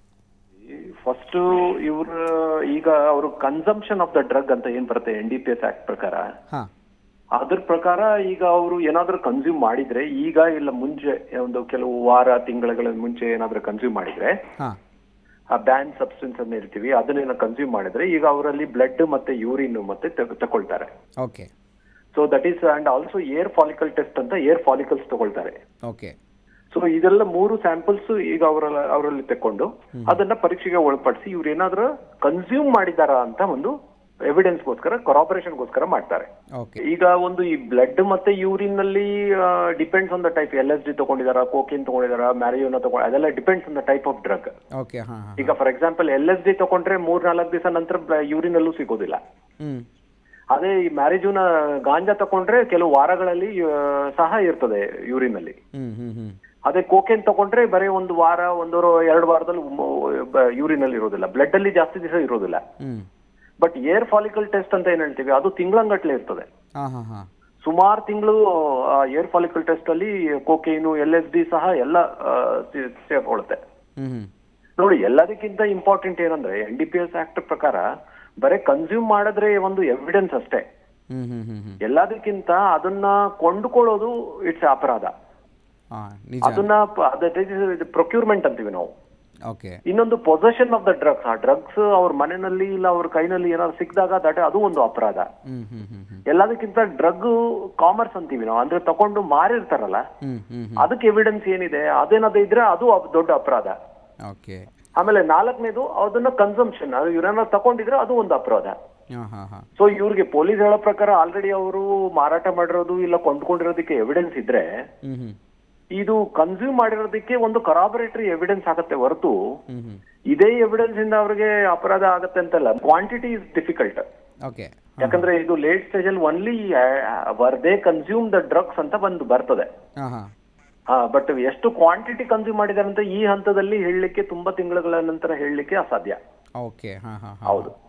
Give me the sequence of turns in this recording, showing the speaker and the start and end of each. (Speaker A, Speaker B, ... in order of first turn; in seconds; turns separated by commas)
Speaker A: 0.6-6.3, Speaker A: 7.4-14.4, Speaker A: 15.5-20.9, Speaker B: 21.2-21.5, Speaker A: 22.1-25.6, Speaker B: 25.9-26.1, Speaker A: 26.7-33.7, Speaker B: 30.0-30.2, Speaker A: 34.3-36.3, Speaker A: 36.9-44.5, Speaker B: 44.8-45.5, Speaker A: 45.4-49.2, Speaker A: 50.5-55.6, Speaker B: 55.8-56.4, Speaker A: 56.7-62.6, Speaker B: 62.8-63.1, Speaker A: 63.6-66.5, Speaker B: 66.8-67.3, Speaker A: 67.7-73.6, Speaker B: 74.0-74.3, Speaker A: 74.8-77.8, Speaker A: 78.4-80.6, Speaker B: 81.1-81.8, Speaker A: 81.8-85.1, Speaker B: 85.9-86.7, Speaker A: 86.4-88.9, Speaker B: 89.5-89.8, Speaker A: 89.9-95.3, Speaker B: 95.5-96.2, Speaker A: 96.3-100.0, Speaker B: 100.2-100.9, Speaker A: 100.8-103.8, Speaker B: 104.3-104.6, Speaker A: 105.0-108.8, Speaker B: 109.2-109.7, Speaker A: 109.8-114.7, Speaker B: 115.0-115.4, Speaker A: 116.0-119.3, Speaker B: 119.7-120.0, Speaker A: 120.3-124.0, Speaker B: 124.5-125.3, Speaker A: 125.0-129.7, Speaker B: 130.0-130.3, Speaker A: 130.9-136.2, Speaker B: 136.6-137.7, Speaker A: 137.5-137.7